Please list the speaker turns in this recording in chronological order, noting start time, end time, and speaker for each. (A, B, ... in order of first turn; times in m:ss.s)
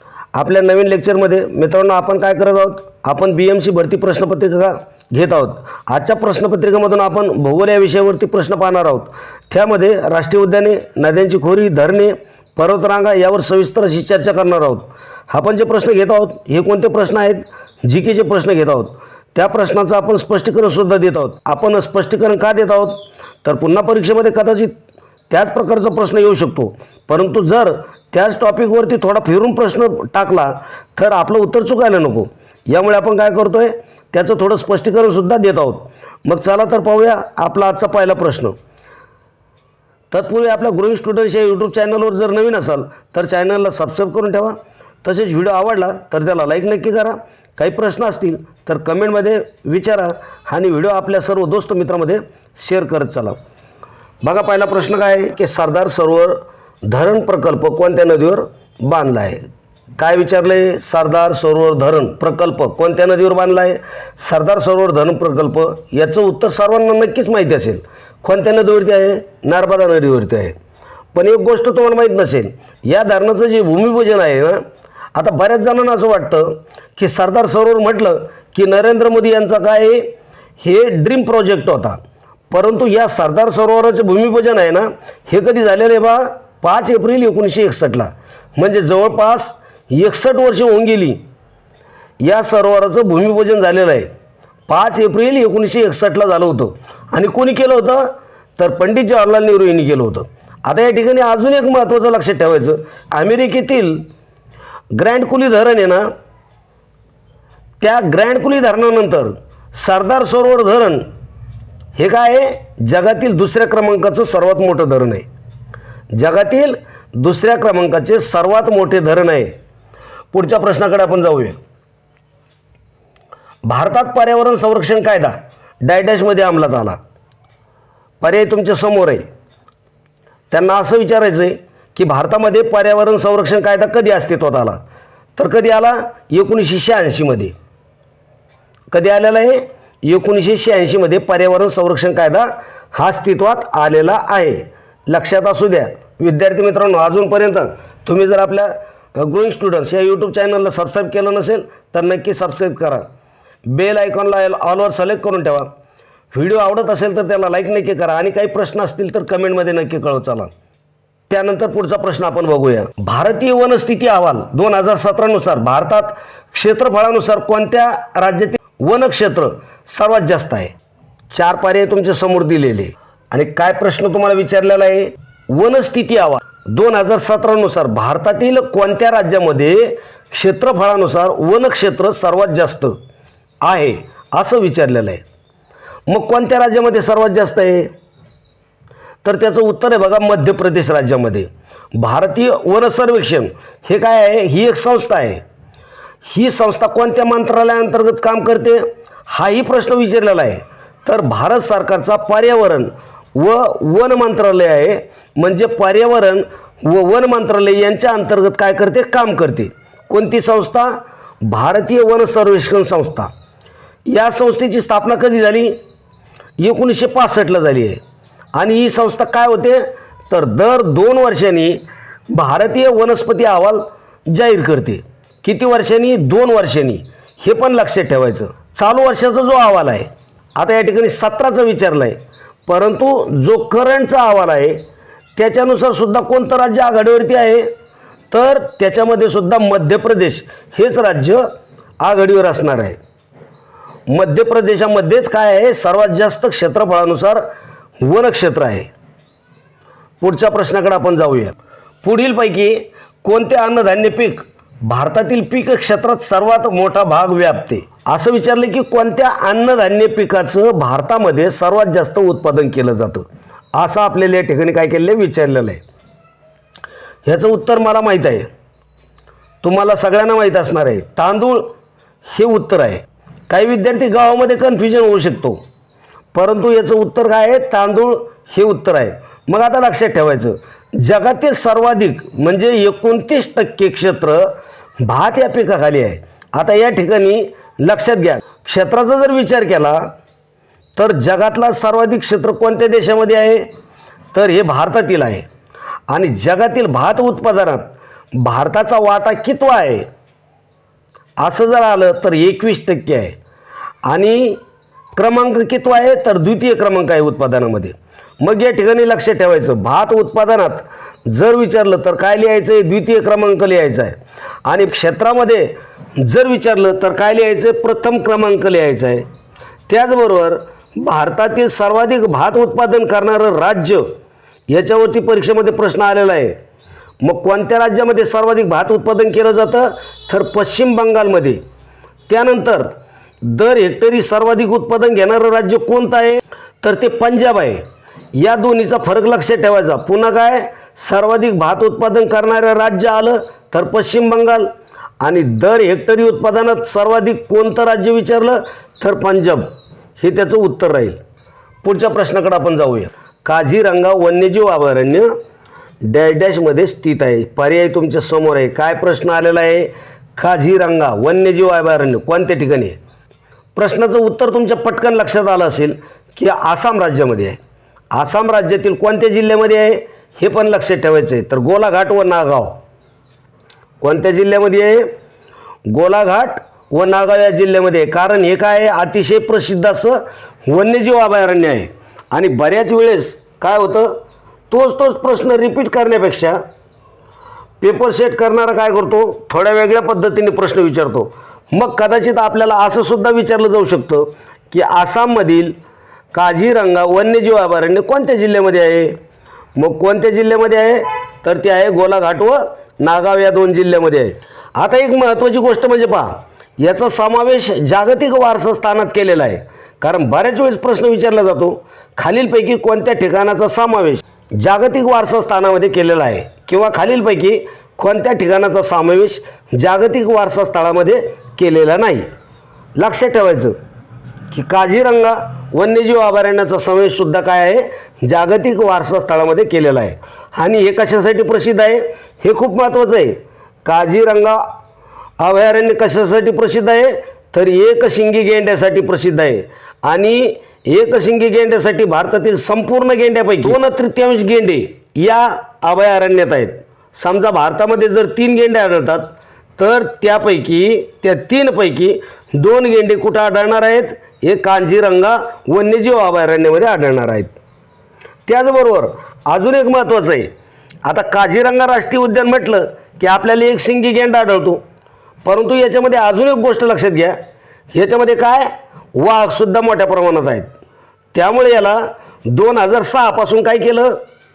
0:00.4-0:24.8 A
0:25.3-0:38.6 A
0:40.1-0:53.4 A
0:54.2-0:59.4 A
1:00.0-1:10.6 A
1:11.1-1:14.6 A
1:15.2-1:22.0 A
1:22.5-1:31.2 A
1:32.2-1:34.1 A
1:34.7-1:44.1 A
1:44.9-1:46.1 A
1:47.8-1:51.1 A
1:52.0-1:55.3 A
1:56.1-1:59.5 A
2:00.3-2:01.6 A
2:03.7-2:07.0 A
2:08.2-2:09.2 A
2:10.5-2:14.8 A
2:15.4-2:17.5 A
2:18.9-2:33.1 A
2:33.7-2:35.7 A
2:36.3-2:40.5 A
2:41.3-2:50.7 A
2:51.3-3:03.0 A
3:03.6-3:05.2 A
3:06.1-3:07.9 A
3:09.2-3:15.4 A
3:16.3-3:33.3 A
3:34.1-3:35.8 A
3:36.6-3:38.0 A
3:38.6-3:54.8 A
3:55.4-3:57.7 A
3:58.3-4:01.4 A
4:02.0-4:03.0 A
4:04.1-4:07.4 A
4:08.0-4:08.9 A
4:10.2-4:25.8 A
4:27.3-4:28.5 A
4:29.6-4:31.7 A
4:32.3-4:35.6 A
4:36.3-4:50.1 A
4:51.0-4:53.7 A
4:54.3-4:55.5 A
4:56.1-5:00.1 A
5:01.4-5:03.4 A
5:04.1-5:04.6 A
5:05.2-5:19.2 A
5:19.9-5:24.1 A
5:24.7-5:26.6 A
5:27.2-5:31.6 A
5:32.3-5:32.9 A
5:33.4-5:44.7 A
5:45.2-5:51.2 A
5:51.8-5:55.3 A
5:56.0-6:03.0 A
6:03.8-6:07.6 A
6:08.1-6:12.8 A
6:14.0-6:15.1 A
6:15.9-6:24.2 A
6:24.7-6:26.6 A
6:27.8-6:35.8 A
6:36.3-6:39.2 A
6:39.8-7:02.3 A
7:03.0-7:03.8 A
7:04.5-7:14.6 A
7:15.4-7:37.5 A
7:38.5-7:40.5 A
7:41.1-7:44.8 A
7:45.4-7:47.4 A
7:47.9-7:50.7 A
7:51.3-7:54.2 A